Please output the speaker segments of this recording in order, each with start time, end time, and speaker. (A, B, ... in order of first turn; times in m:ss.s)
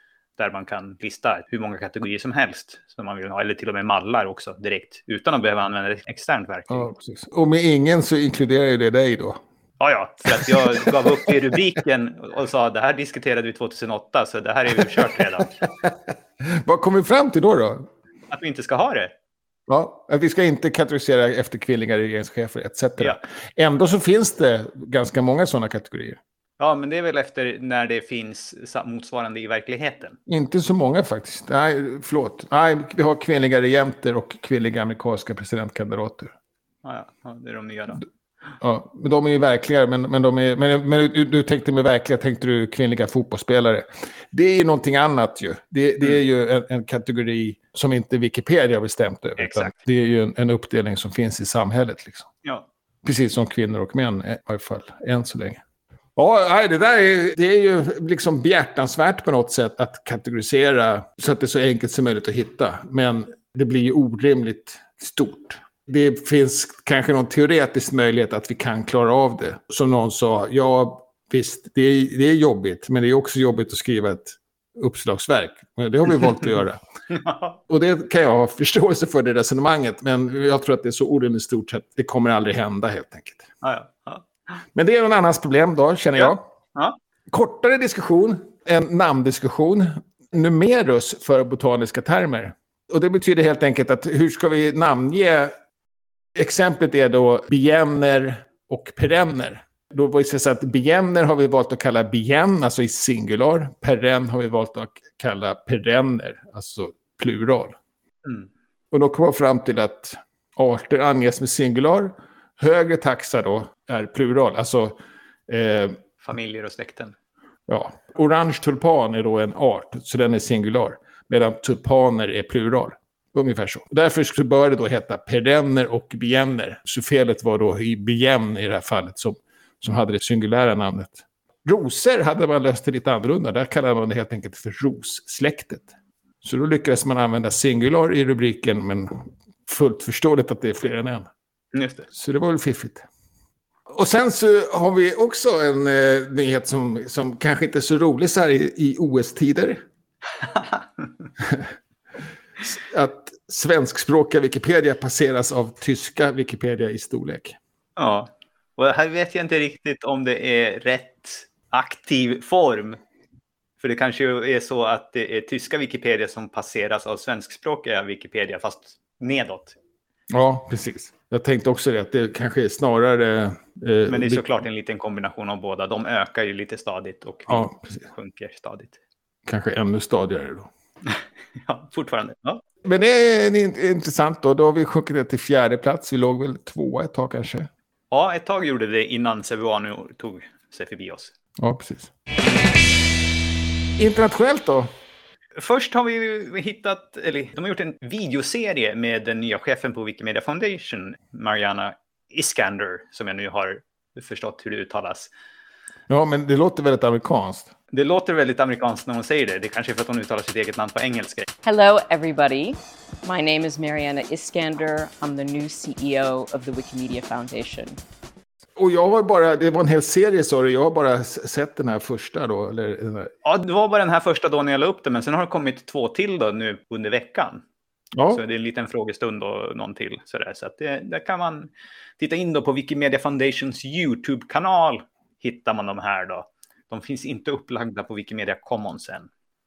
0:00.4-0:06.9 A
0:06.7-0:09.4 B
0:09.8-0:15.6 A
0:10.3-0:11.3 B
0:15.0-0:17.9 B
0:18.3-0:19.1 A
0:19.7-0:26.2 B
0:26.6-0:30.2 A
0:30.3-0:36.4 B
0:36.8-0:38.0 A
0:38.6-0:52.3 B
0:49.4-0:49.8 A
0:53.0-0:55.6 B
0:56.2-1:16.8 B
1:17.1-1:17.6 A
1:17.7-1:23.5 B
1:23.6-1:24.3 A
1:24.8-1:26.4 B
1:26.2-1:27.0 A
1:27.3-1:35.5 B
1:36.4-1:47.8 B
1:48.9-1:55.0 B
1:55.5-1:56.0 B
1:56.2-1:57.2 A
1:57.7-2:15.9 B
2:16.4-2:21.3 B
2:21.7-2:22.1 A
2:22.1-2:23.1 B
2:23.9-2:29.8 B
2:30.4-2:31.1 A
2:31.4-2:31.7 B
2:32.6-2:37.6 B
2:38.0-2:43.0 A
2:43.8-2:49.8 A
2:50.3-2:54.5 B
2:54.1-2:59.0 A
2:57.5-2:58.0 B
2:59.5-3:00.7 B
3:01.1-3:02.6 A
3:02.8-3:07.7 B
3:08.1-3:11.3 A
3:11.6-3:12.1 B
3:14.0-3:14.9 B
3:15.6-3:25.3 A
3:26.1-3:27.7 B
3:27.9-3:31.5 A
3:31.6-3:38.0 C
3:38.8-3:43.3 B
3:43.4-3:47.6 A
3:48.1-3:48.4 B
3:48.3-3:59.3 A